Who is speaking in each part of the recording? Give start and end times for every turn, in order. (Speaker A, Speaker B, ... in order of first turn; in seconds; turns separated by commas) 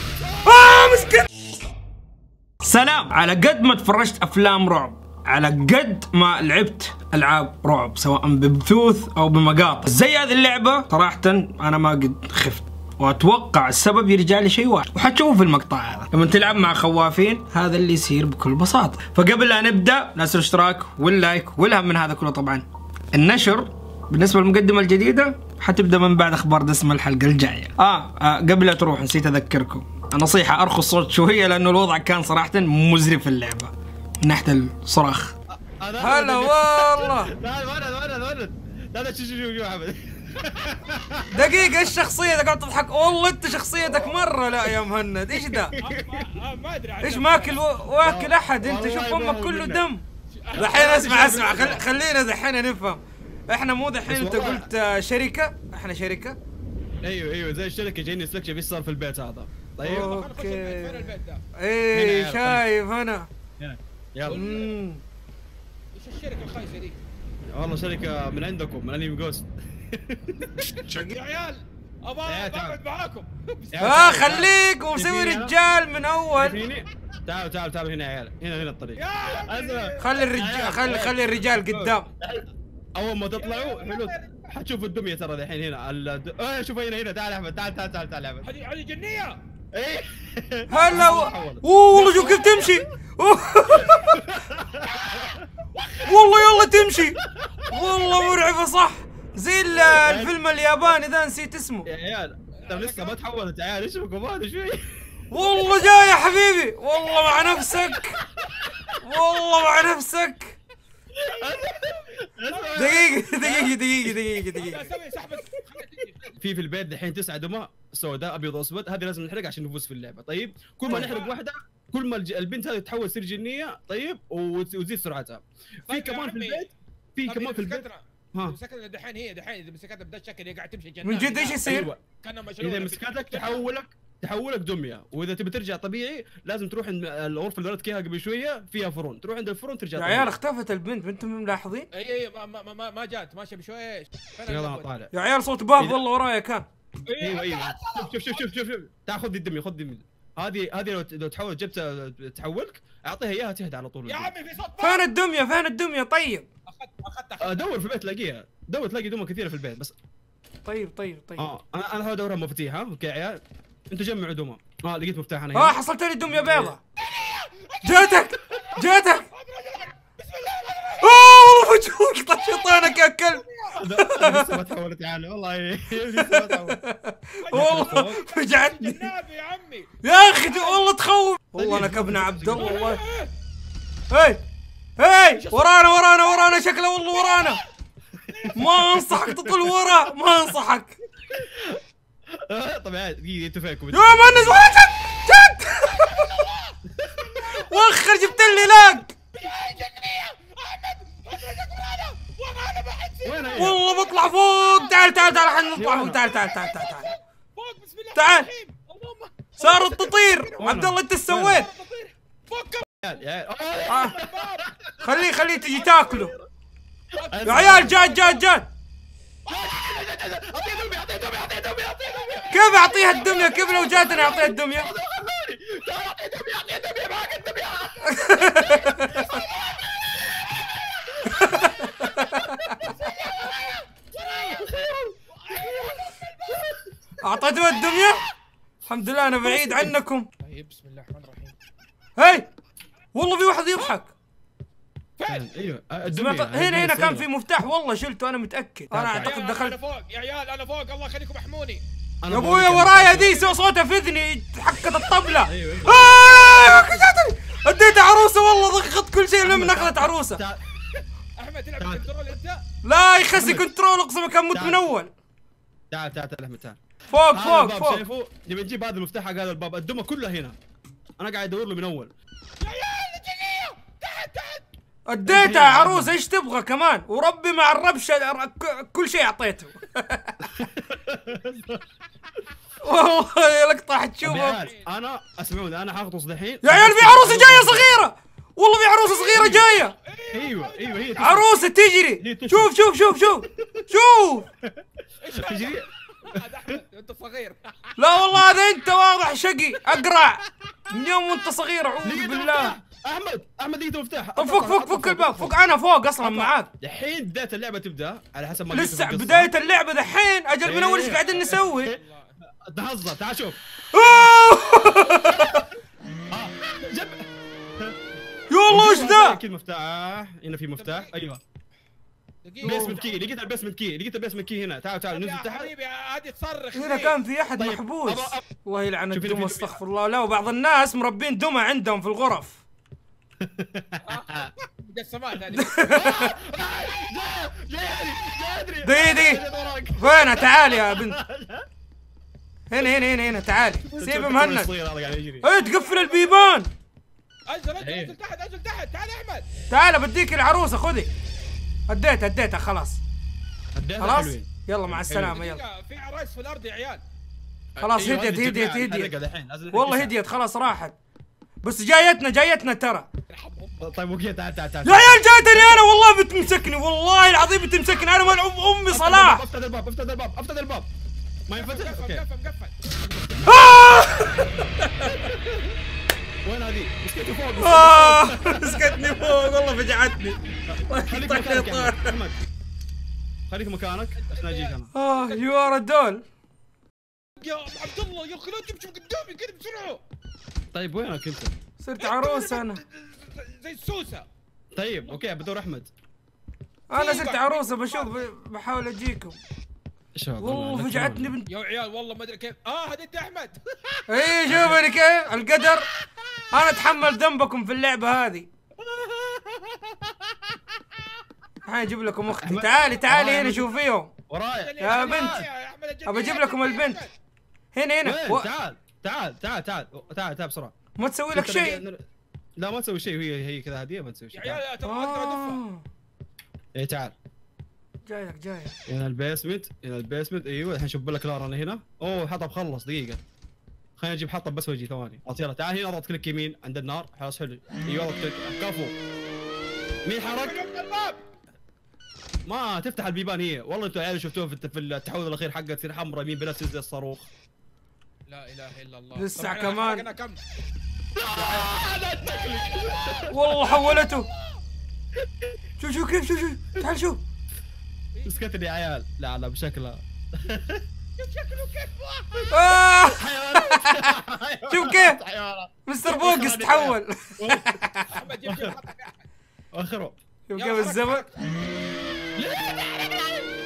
Speaker A: 0.2-1.1, Speaker B: 0.4-1.4, Speaker B: 2.6-35.3, Speaker C: 35.6-41.7, Speaker B: 36.0-37.3, Speaker B: 41.3-45.7, Speaker C: 43.8-44.7, Speaker C: 45.3-46.2, Speaker A: 45.8-47.6, Speaker B: 47.0-50.0, Speaker C: 48.0-49.8, Speaker A: 50.3-51.2, Speaker C: 50.5-51.8, Speaker B: 50.5-56.4, Speaker C: 54.1-54.7, Speaker C: 57.0-60.1, Speaker B: 59.8-63.3, Speaker A: 59.9-61.4, Speaker C: 61.9-62.6, Speaker C: 63.6-64.4, Speaker A: 64.2-64.8, Speaker B: 64.3-65.0, Speaker A: 65.9-67.0, Speaker C: 67.5-70.8, Speaker A: 70.6-74.0, Speaker C: 72.3-72.8, Speaker C: 73.7-75.5, Speaker B: 73.8-76.6, Speaker C: 76.3-88.5, Speaker A: 79.0-80.3, Speaker B: 80.0-82.1, Speaker A: 83.3-84.5, Speaker A: 88.4-89.4, Speaker C: 89.7-92.8, Speaker B: 90.7-94.3, Speaker C: 94.1-95.5, Speaker A: 95.8-96.3, Speaker B: 96.0-101.9, Speaker C: 97.2-97.7, Speaker C: 99.7-100.3, Speaker C: 101.8-105.0, Speaker A: 102.6-103.2, Speaker B: 105.3-108.2, Speaker A: 105.5-106.1, Speaker A: 107.2-107.8, Speaker B: 109.0-110.6, Speaker C: 111.2-114.6, Speaker A: 111.2-113.2, Speaker B: 112.8-114.9, Speaker A: 114.6-116.3, Speaker C: 116.4-128.6, Speaker A: 120.8-121.3, Speaker A: 125.9-126.7, Speaker A: 127.2-133.6, Speaker B: 131.0-131.9, Speaker C: 131.6-132.0, Speaker C: 132.6-140.4, Speaker B: 139.9-141.9, Speaker A: 141.9-144.9, Speaker C: 144.5-145.1, Speaker B: 145.1-146.7, Speaker C: 145.8-146.0, Speaker A: 147.1-148.4, Speaker C: 147.2-154.3, Speaker A: 154.1-155.1, Speaker B: 154.8-156.4, Speaker A: 156.7-157.7, Speaker C: 157.4-159.9, Speaker B: 160.6-161.5, Speaker C: 161.4-166.8, Speaker B: 165.5-166.8, Speaker A: 167.0-171.4, Speaker B: 167.8-169.3, Speaker B: 171.0-174.6, Speaker A: 172.7-173.9, Speaker C: 173.8-176.8, Speaker B: 176.2-179.1, Speaker A: 177.4-180.8, Speaker C: 177.5-178.2, Speaker B: 180.0-183.0, Speaker C: 181.6-182.8, Speaker A: 182.5-183.3, Speaker B: 184.1-184.4, Speaker B: 185.0-187.6, Speaker A: 185.3-187.6, Speaker A: 188.3-189.1, Speaker B: 188.6-190.9, Speaker C: 188.6-189.8, Speaker C: 191.3-191.8, Speaker C: 192.3-194.7, Speaker B: 193.9-196.3, Speaker A: 195.8-205.9, Speaker C: 197.0-197.3, Speaker B: 197.6-199.1, Speaker C: 203.2-203.8, Speaker B: 203.6-207.1, Speaker C: 205.7-206.4, Speaker A: 206.4-210.7, Speaker B: 208.1-208.5, Speaker B: 209.6-211.7, Speaker C: 210.6-211.9, Speaker A: 211.5-213.1, Speaker C: 213.0-216.4, Speaker A: 213.9-214.7, Speaker B: 213.9-214.2, Speaker B: 215.0-216.3, Speaker A: 217.2-218.4, Speaker C: 217.2-218.0, Speaker B: 217.4-218.7, Speaker A: 219.5-219.9, Speaker C: 219.5-229.5, Speaker B: 222.5-224.9, Speaker B: 228.1-229.2, Speaker A: 228.7-229.8, Speaker C: 230.0-230.3, Speaker C: 230.9-231.6, Speaker B: 231.3-232.8, Speaker A: 232.7-234.8, Speaker C: 232.9-233.6, Speaker C: 234.2-236.8, Speaker A: 235.3-236.7, Speaker B: 237.2-238.2, Speaker B: 238.9-240.3, Speaker C: 239.4-239.9, Speaker A: 240.4-241.6, Speaker B: 242.2-242.5, Speaker B: 243.1-244.1, Speaker A: 245.2-245.5, Speaker C: 245.3-247.2, Speaker B: 246.1-249.8, Speaker C: 248.9-249.4, Speaker A: 249.2-251.8, Speaker C: 252.2-253.4, Speaker B: 252.3-260.4, Speaker C: 255.4-256.8, Speaker C: 259.4-260.8, Speaker A: 261.4-262.6, Speaker C: 261.8-262.0, Speaker B: 262.8-265.1, Speaker C: 263.3-263.6, Speaker C: 264.5-264.9, Speaker C: 265.9-266.8, Speaker B: 267.1-268.0, Speaker C: 267.3-270.6, Speaker C: 271.2-272.1, Speaker A: 272.6-274.6, Speaker B: 275.1-280.6, Speaker C: 275.2-276.1, Speaker C: 280.6-281.8, Speaker B: 282.8-284.7, Speaker C: 284.2-287.9, Speaker A: 284.5-284.9, Speaker B: 286.6-289.9, Speaker A: 289.1-291.4, Speaker C: 289.3-289.7, Speaker C: 290.3-291.5, Speaker B: 291.2-294.5, Speaker C: 292.2-292.8, Speaker C: 293.5-293.8, Speaker A: 295.2-298.0, Speaker C: 295.4-296.4, Speaker B: 298.0-302.8, Speaker C: 302.0-305.5, Speaker B: 304.4-306.7, Speaker C: 306.2-309.5, Speaker B: 308.7-311.9, Speaker C: 310.6-312.0, Speaker A: 311.2-312.4, Speaker C: 312.6-314.4, Speaker B: 313.9-315.6, Speaker C: 316.3-318.0, Speaker B: 318.5-319.4, Speaker C: 318.7-321.4, Speaker A: 320.8-321.1, Speaker A: 322.4-323.3, Speaker B: 322.6-323.0, Speaker C: 322.6-325.7, Speaker A: 325.1-327.2, Speaker B: 326.7-332.6, Speaker C: 327.6-328.4, Speaker C: 329.1-329.8, Speaker C: 333.4-334.5, Speaker A: 334.0-335.9, Speaker B: 335.6-336.3, Speaker C: 335.9-341.6, Speaker B: 338.8-339.4, Speaker B: 339.9-341.2, Speaker B: 342.7-344.7, Speaker C: 343.9-345.5, Speaker B: 345.4-346.7, Speaker A: 345.5-346.6, Speaker A: 347.5-349.5, Speaker C: 347.8-348.1, Speaker B: 349.7-351.1, Speaker B: 351.9-353.0, Speaker C: 353.7-355.4, Speaker B: 354.0-355.6, Speaker A: 355.2-357.0, Speaker C: 357.8-360.1, Speaker B: 357.8-359.1, Speaker B: 359.7-360.9, Speaker B: 361.6-363.1, Speaker A: 363.3-364.0, Speaker C: 363.8-365.8, Speaker B: 364.8-369.4, Speaker C: 368.9-370.9, Speaker C: 371.5-372.2, Speaker A: 371.5-373.6, Speaker B: 373.5-375.1, Speaker C: 375.0-375.7, Speaker C: 376.4-379.2, Speaker B: 377.6-380.4, Speaker C: 380.7-382.4, Speaker B: 380.9-382.1, Speaker C: 383.5-384.9, Speaker A: 384.2-385.7, Speaker B: 384.9-386.2, Speaker A: 387.4-390.0, Speaker C: 390.7-391.5, Speaker B: 391.8-392.8, Speaker A: 392.0-394.3, Speaker C: 394.7-395.9, Speaker B: 396.9-399.4, Speaker A: 396.9-398.3, Speaker C: 400.1-401.3, Speaker B: 400.4-401.5, Speaker A: 401.5-403.6, Speaker C: 403.9-404.8, Speaker B: 404.1-405.9, Speaker B: 406.5-408.5, Speaker C: 408.8-411.0, Speaker B: 411.6-414.1, Speaker C: 412.2-413.8, Speaker C: 414.3-415.5, Speaker A: 414.5-417.1, Speaker B: 414.8-415.4, Speaker B: 416.1-417.0, Speaker B: 417.7-418.5, Speaker C: 418.0-420.7, Speaker B: 420.9-421.8, Speaker C: 421.3-422.0, Speaker C: 422.6-424.6, Speaker A: 424.3-425.6, Speaker B: 424.8-425.8, Speaker C: 426.8-427.1, Speaker B: 428.1-428.8, Speaker C: 428.9-433.2, Speaker C: 434.0-438.9, Speaker C: 440.1-440.6, Speaker A: 440.2-441.2, Speaker C: 442.4-447.3, Speaker A: 448.3-450.4, Speaker B: 449.2-450.1, Speaker C: 451.1-453.9, Speaker A: 452.9-454.5, Speaker B: 453.3-454.3, Speaker C: 455.2-455.5, Speaker B: 455.8-457.2, Speaker A: 458.1-458.7, Speaker C: 458.2-460.8, Speaker A: 461.2-462.8, Speaker B: 462.5-464.1, Speaker C: 463.0-467.7, Speaker B: 464.7-465.2, Speaker B: 465.9-468.2, Speaker A: 468.1-469.3, Speaker C: 468.4-468.7, Speaker C: 469.7-470.1, Speaker B: 470.5-471.2, Speaker A: 470.5-471.3, Speaker C: 472.4-473.5